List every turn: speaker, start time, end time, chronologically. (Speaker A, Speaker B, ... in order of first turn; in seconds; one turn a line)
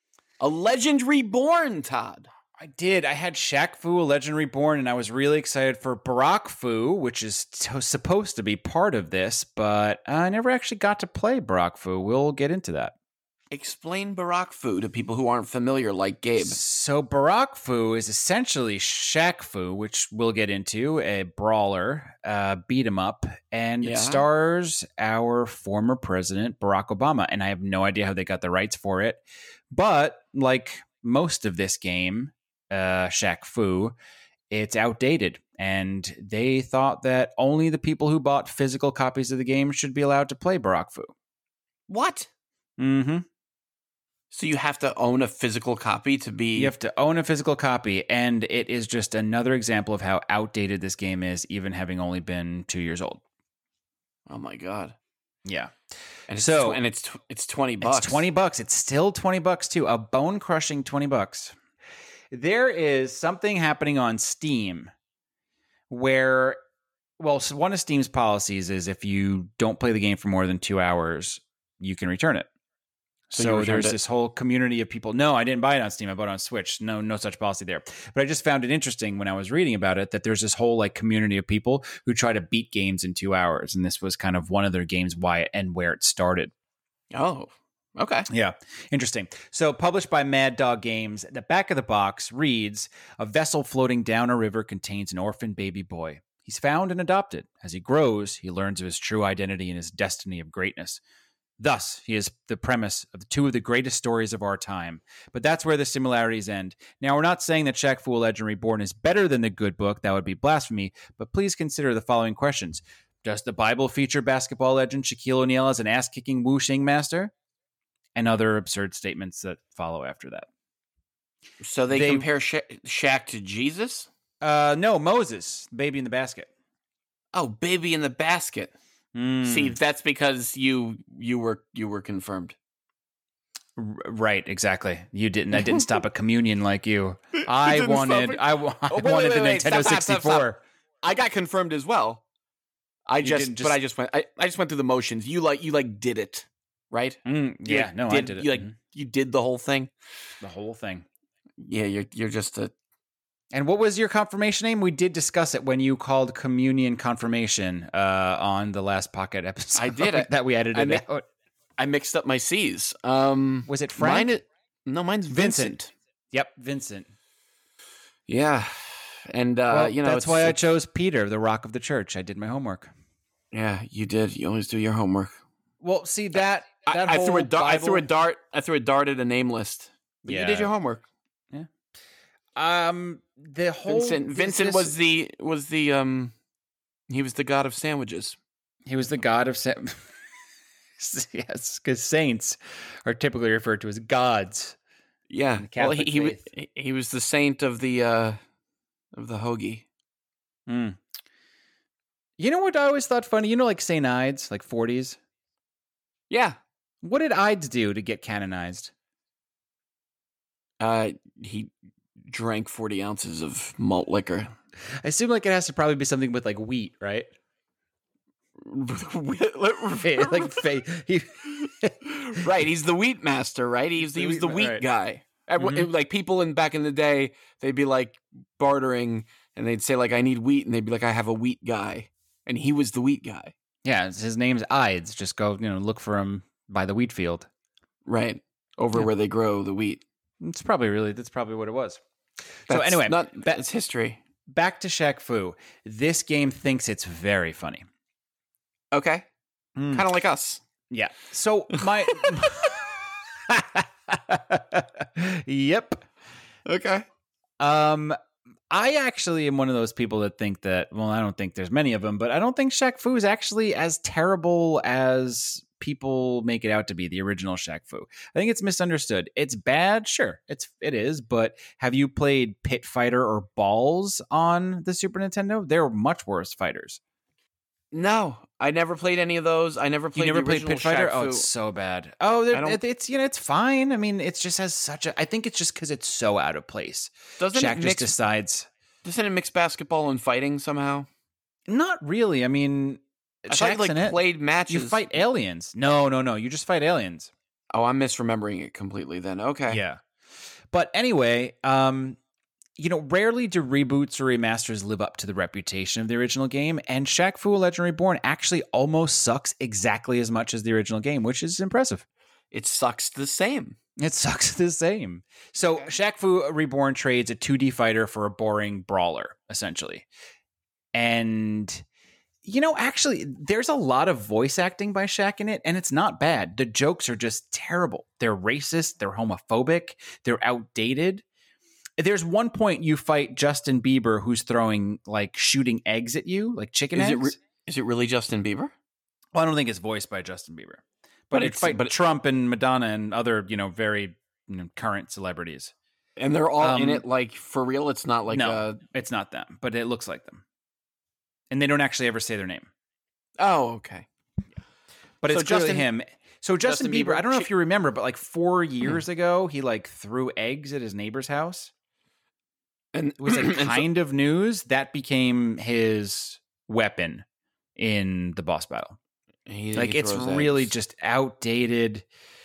Speaker A: 0.4-2.3
Speaker B: 2.6-12.9
Speaker A: 13.5-16.6
Speaker B: 16.4-33.9
Speaker A: 23.8-24.2
Speaker B: 34.5-41.1
Speaker A: 41.9-42.3
Speaker B: 42.8-43.2
Speaker A: 44.3-46.7
Speaker B: 46.5-53.2
Speaker A: 54.3-55.0
Speaker B: 55.4-55.7
Speaker A: 56.3-58.2
Speaker B: 56.4-56.8
Speaker B: 57.8-61.5
Speaker B: 62.3-64.9
Speaker B: 65.9-66.6
Speaker B: 67.2-72.5
Speaker B: 73.3-86.5
Speaker A: 73.3-74.0
Speaker A: 87.1-88.3
Speaker B: 88.3-101.0
Speaker B: 101.6-117.3
Speaker B: 118.1-120.5
Speaker A: 121.6-124.1
Speaker B: 121.9-122.2
Speaker B: 124.4-126.5
Speaker A: 127.3-128.7
Speaker B: 129.1-129.7
Speaker A: 129.4-132.6
Speaker B: 133.8-140.6
Speaker A: 137.4-140.5
Speaker A: 141.0-142.2
Speaker A: 143.1-149.9
Speaker B: 143.2-143.8
Speaker B: 147.2-148.8
Speaker B: 150.4-151.0
Speaker A: 151.6-152.7
Speaker B: 153.5-161.2
Speaker A: 159.8-161.0
Speaker A: 161.8-165.9
Speaker B: 163.7-164.3
Speaker B: 165.3-165.7
Speaker B: 166.3-167.1
Speaker A: 168.3-170.6
Speaker B: 169.7-172.9
Speaker A: 173.5-175.3
Speaker B: 175.8-178.1
Speaker A: 176.8-181.0
Speaker B: 180.2-180.7
Speaker B: 182.6-184.9
Speaker A: 183.9-186.3
Speaker A: 187.1-188.4
Speaker B: 188.8-190.1
Speaker B: 191.0-194.8
Speaker A: 195.3-198.4
Speaker B: 195.6-196.4
Speaker A: 199.1-199.8
Speaker B: 200.7-201.0
Speaker B: 202.4-205.2
Speaker A: 206.3-206.6
Speaker B: 207.0-208.9
Speaker A: 210.8-211.7
Speaker A: 212.2-214.5
Speaker B: 215.0-217.3
Speaker A: 218.6-220.6
Speaker B: 220.0-222.4
Speaker A: 222.0-233.5
Speaker B: 224.1-224.8
Speaker B: 225.6-225.9
Speaker B: 233.8-237.5
Speaker A: 238.1-240.0
Speaker B: 240.4-242.0
Speaker B: 242.7-243.6
Speaker A: 242.7-244.2
Speaker B: 244.5-247.8
Speaker A: 248.9-249.3
Speaker B: 249.8-250.1
Speaker A: 249.9-250.6
Speaker B: 250.9-256.0
Speaker A: 256.6-257.1
Speaker B: 257.6-258.2
Speaker B: 258.7-277.0
Speaker A: 277.9-281.5
Speaker B: 280.1-288.7
Speaker A: 282.5-282.8
Speaker A: 287.4-288.1
Speaker A: 289.0-291.1
Speaker B: 291.7-297.3
Speaker A: 293.5-295.0
Speaker A: 297.7-299.8
Speaker B: 299.7-300.0
Speaker B: 300.7-302.2
Speaker B: 302.8-312.0
Speaker A: 312.5-313.8
Speaker B: 314.0-320.1
Speaker A: 315.6-315.9
Speaker B: 320.9-321.8
Speaker B: 322.4-331.2
Speaker B: 332.0-337.4
Speaker A: 336.9-338.7
Speaker B: 339.3-345.7
Speaker A: 341.3-341.9
Speaker A: 346.2-348.8
Speaker B: 346.6-347.0
Speaker B: 348.3-350.4
Speaker B: 351.5-352.7
Speaker A: 353.4-354.1
Speaker B: 355.2-361.7
Speaker A: 355.3-355.9
Speaker A: 356.6-357.5
Speaker A: 362.9-363.9
Speaker B: 363.2-367.2
Speaker B: 367.8-369.0
Speaker A: 369.4-370.7
Speaker B: 369.7-372.1